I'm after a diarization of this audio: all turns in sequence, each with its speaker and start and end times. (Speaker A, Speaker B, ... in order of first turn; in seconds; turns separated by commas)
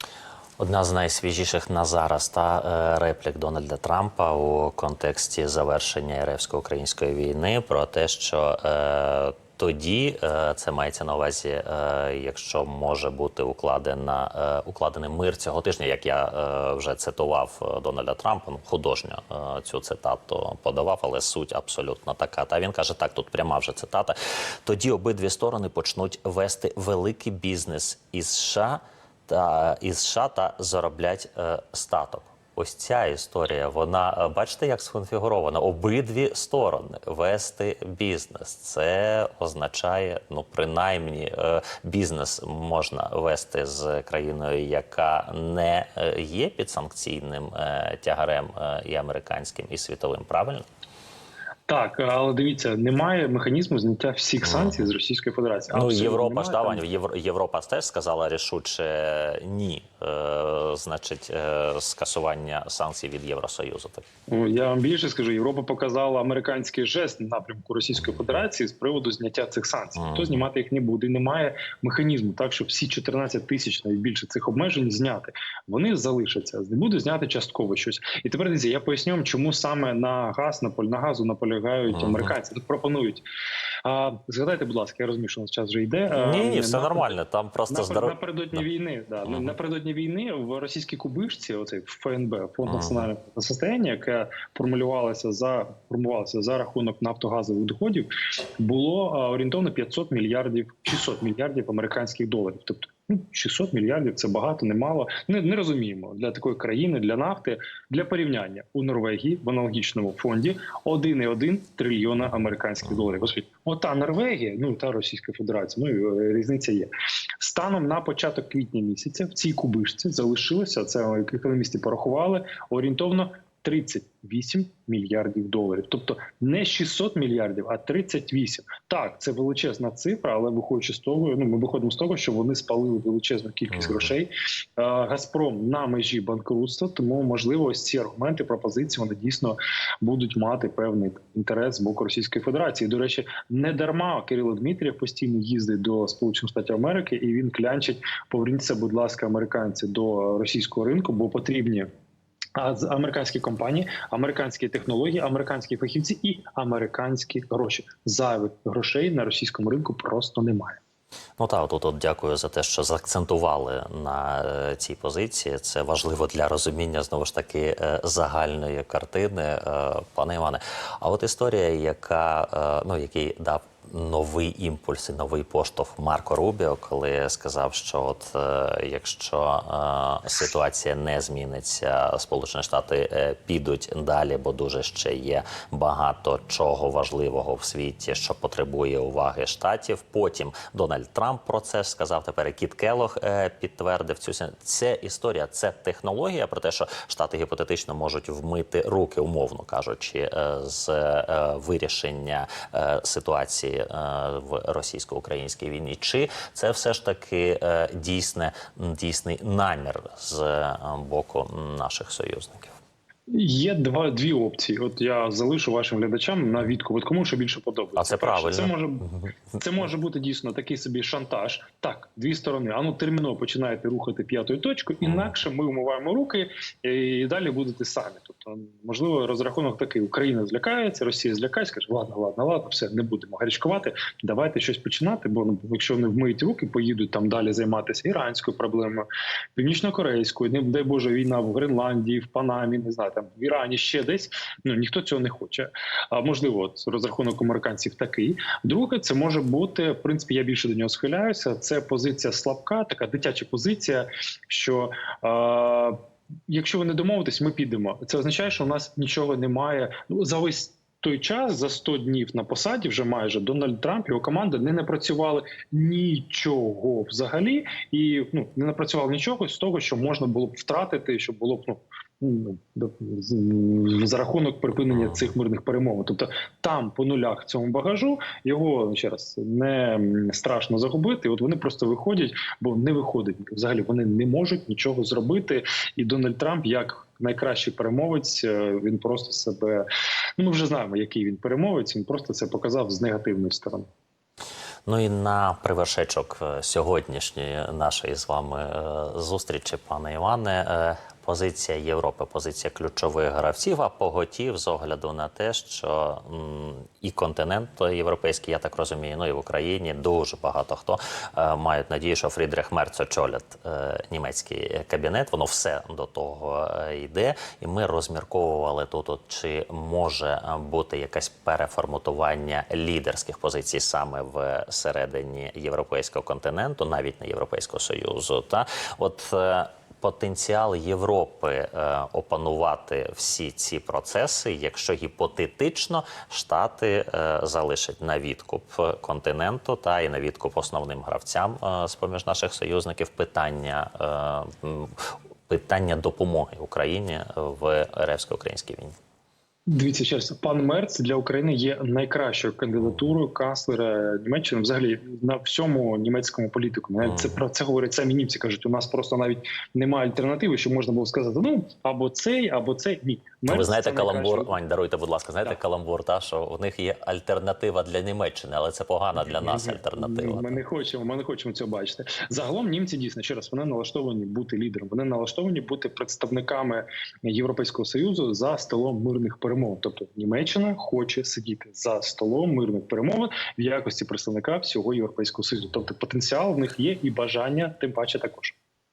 Speaker A: 0.6-50.6, Speaker B: 51.7-56.8, Speaker A: 54.4-54.9, Speaker A: 55.7-64.0, Speaker B: 64.3-83.2, Speaker A: 70.0-70.4, Speaker A: 81.9-82.3, Speaker B: 83.8-87.2, Speaker A: 86.1-88.7, Speaker B: 87.7-151.9, Speaker A: 89.3-89.5, Speaker A: 92.7-93.1, Speaker A: 133.7-134.1, Speaker B: 152.6-160.8, Speaker A: 161.4-212.7, Speaker B: 213.3-293.9, Speaker A: 218.0-219.3, Speaker A: 225.0-225.3, Speaker A: 274.9-275.3, Speaker A: 294.9-348.9, Speaker B: 349.7-364.5, Speaker A: 357.0-357.4, Speaker A: 363.5-370.6, Speaker B: 369.2-388.6